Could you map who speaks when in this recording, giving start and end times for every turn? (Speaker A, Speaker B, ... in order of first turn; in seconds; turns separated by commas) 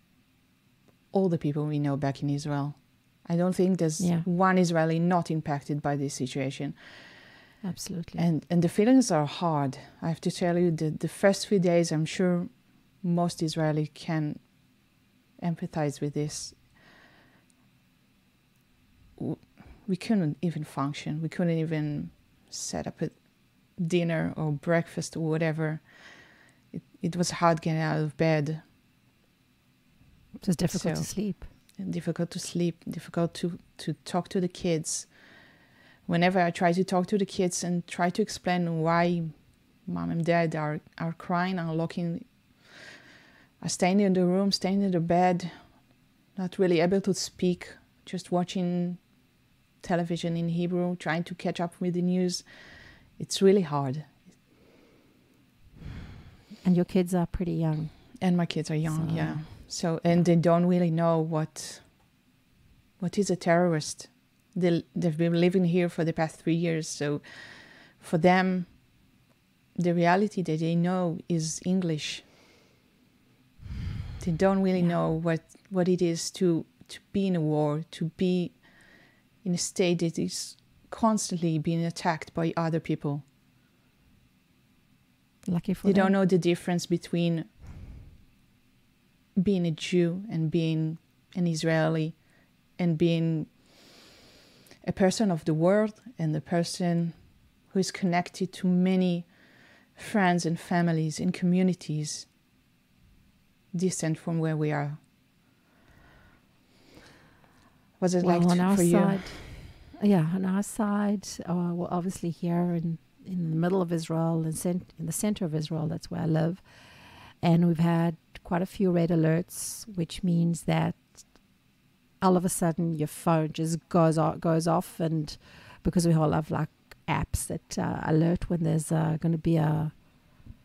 Speaker A: 1.1-7.2, Speaker B: 4.0-4.3, Speaker B: 7.6-8.2, Speaker A: 8.2-16.8, Speaker A: 19.2-28.6, Speaker B: 30.4-31.5, Speaker A: 30.7-35.5, Speaker A: 36.0-42.8, Speaker A: 43.6-54.3, Speaker B: 56.6-60.2, Speaker A: 58.2-62.2, Speaker A: 63.0-69.1, Speaker A: 69.8-72.3, Speaker A: 74.2-83.3, Speaker B: 85.4-86.1, Speaker A: 85.8-87.5, Speaker A: 89.4-94.0, Speaker A: 94.8-102.3, Speaker A: 103.7-105.1, Speaker A: 108.0-109.5, Speaker B: 108.2-121.6, Speaker B: 122.2-130.4